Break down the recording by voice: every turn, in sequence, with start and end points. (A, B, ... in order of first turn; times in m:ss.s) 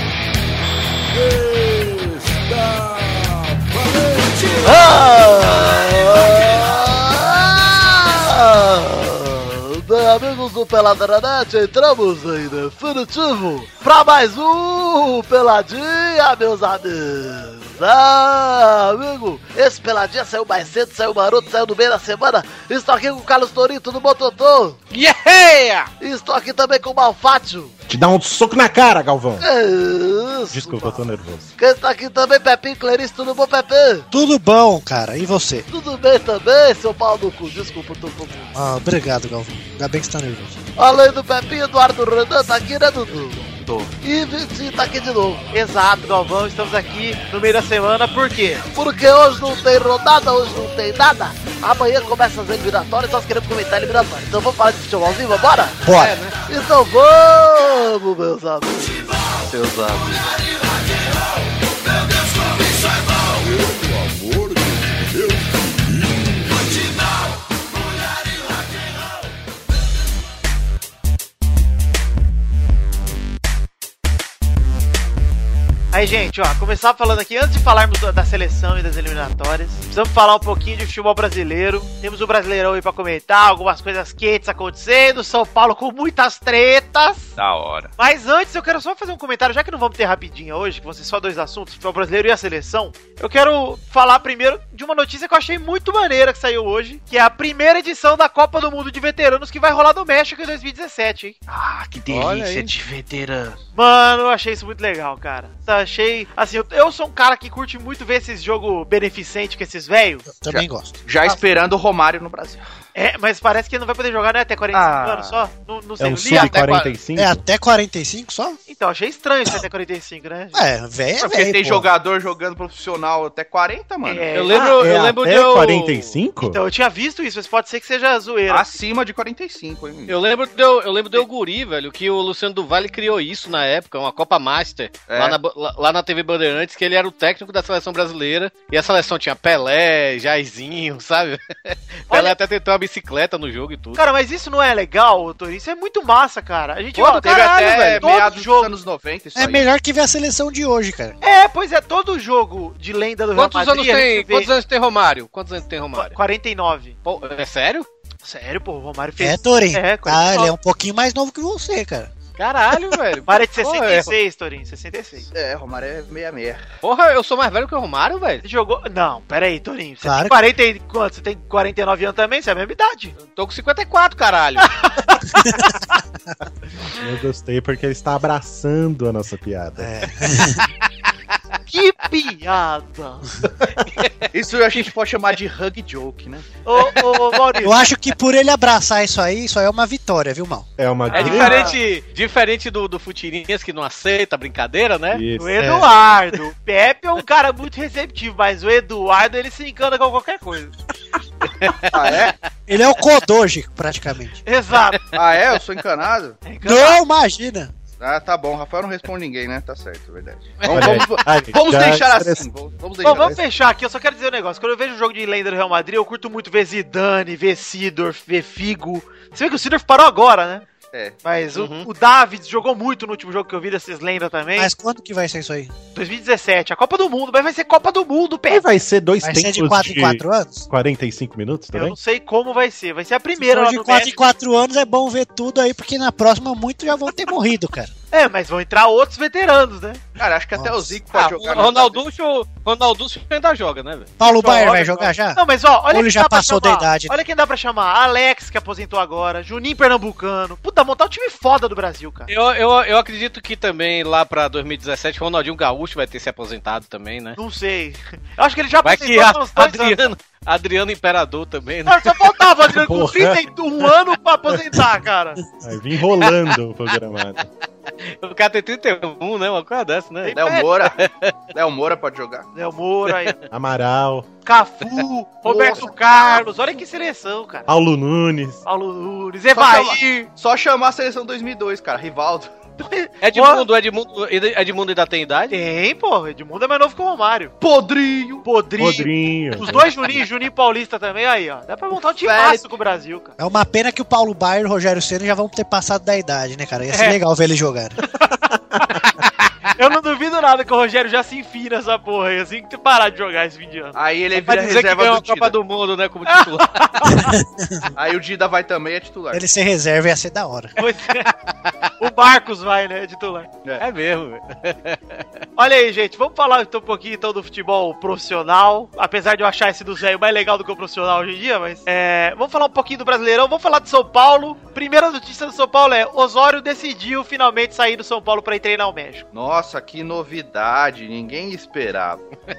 0:01.1-0:05.2 A
0:04.6-0:24.8 B
0:24.9-0:25.9 C
0:26.0-0:27.7 B
0:27.9-0:29.4 D
0:29.4-0:31.0 B
0:30.5-0:31.5 D
0:31.6-0:34.0 B
0:34.1-0:35.6 E
0:35.7-0:38.5 B
0:38.5-0:40.6 E
0:40.8-0:45.4 B
0:45.5-0:48.6 F
0:48.7-0:55.8 B
0:55.8-0:56.2 E
0:55.9-0:56.3 C
0:56.4-0:59.1 B
0:59.4-1:00.2 G
1:03.3-1:06.9 A
1:15.9-1:27.3 F
1:27.4-1:27.9 G
1:28.0-1:41.4 F
1:41.5-1:43.5 G
1:42.1-1:42.8 C
1:43.7-1:50.2 F
1:50.3-1:50.9 E
1:50.5-1:52.6 G
1:52.9-1:56.7 F
1:54.7-1:55.4 G
1:56.0-1:57.4 D
1:56.3-1:56.9 C
1:57.2-1:58.6 E
1:58.7-2:00.6 F
2:00.5-2:01.9 E
2:01.2-2:04.6 G
2:04.0-2:04.9 F
2:04.3-2:06.1 C
2:04.7-2:06.6 D
2:06.4-2:08.8 F
2:08.5-2:10.2 G
2:10.1-2:24.0 C
2:15.1-2:15.4 G
2:22.1-2:22.4 F
2:24.0-2:28.7 F
2:27.0-2:28.1 C
2:27.2-2:29.7 G
2:29.3-2:31.2 E
2:31.2-2:34.5 F
2:33.4-2:36.1 C
2:36.1-2:36.9 F
2:37.0-2:37.9 C
2:38.2-2:40.5 F
2:39.2-2:42.1 E
2:42.4-2:44.1 C
2:43.3-2:45.3 F
2:45.3-2:46.6 G
2:46.8-2:48.4 C
2:48.4-2:53.1 F
2:50.0-2:50.4 E
2:53.3-2:54.7 C
2:54.6-2:55.7 F
2:57.0-3:00.1 D
2:59.8-3:00.6 E
3:01.7-3:03.3 F
3:04.3-3:06.5 G
3:06.6-3:07.9 F
3:07.6-3:10.7 E
3:10.8-3:11.7 D
3:11.1-3:11.8 F
3:11.1-3:11.7 G
3:11.1-3:15.2 C
3:15.1-3:15.8 D
3:15.4-3:20.7 F
3:15.6-3:15.8 E
3:21.6-3:22.3 C
3:21.9-3:22.3 G
3:22.7-3:24.4 E
3:24.4-3:25.0 F
3:25.1-3:26.4 G
3:26.4-3:27.0 F
3:26.6-3:27.7 E
3:28.0-3:33.4 G
3:30.6-3:30.9 C
3:30.6-3:32.4 D
3:33.0-3:40.6 F
3:33.1-3:33.4 D
3:40.9-3:41.2 G
3:41.2-3:44.7 F
3:41.5-3:41.9 C
3:44.6-3:45.7 E
3:45.9-3:48.6 F
3:48.5-3:52.0 D
3:49.2-3:50.6 E
3:51.7-3:54.2 F
3:53.4-3:57.9 E
3:58.1-4:00.0 F
4:00.2-4:02.0 G
4:00.6-4:00.9 E
4:01.1-4:04.1 C
4:04.2-4:07.1 E
4:04.2-4:12.3 F
4:12.3-4:17.4 C
4:17.4-4:20.1 F
4:18.8-4:22.3 C
4:21.8-4:25.4 F
4:22.7-4:23.5 D
4:25.6-4:27.5 D
4:28.0-4:31.3 C
4:30.2-4:30.7 F
4:30.3-4:31.0 G
4:31.5-4:32.5 G
4:32.5-4:33.3 F
4:33.5-4:34.3 D
4:34.4-4:37.7 F
4:35.4-4:36.4 G
4:37.7-4:38.6 D
4:38.6-4:40.3 F
4:39.5-4:42.5 G
4:42.8-4:43.6 F
4:43.2-4:45.6 C
4:45.5-4:47.5 F
4:47.6-4:48.4 G
4:48.4-4:53.3 F
4:48.8-4:50.2 D
4:52.2-4:52.7 G
4:53.4-4:58.0 E
4:56.9-4:57.2 F
4:58.2-5:04.0 F
5:03.9-5:05.5 G
5:04.4-5:07.2 C
5:06.3-5:07.3 F
5:07.2-5:07.9 E
5:08.0-5:09.4 G
5:09.3-5:10.8 E
5:10.8-5:11.3 F
5:12.0-5:13.5 F
5:13.8-5:15.2 C
5:15.6-5:29.2 F
5:29.3-5:32.2 G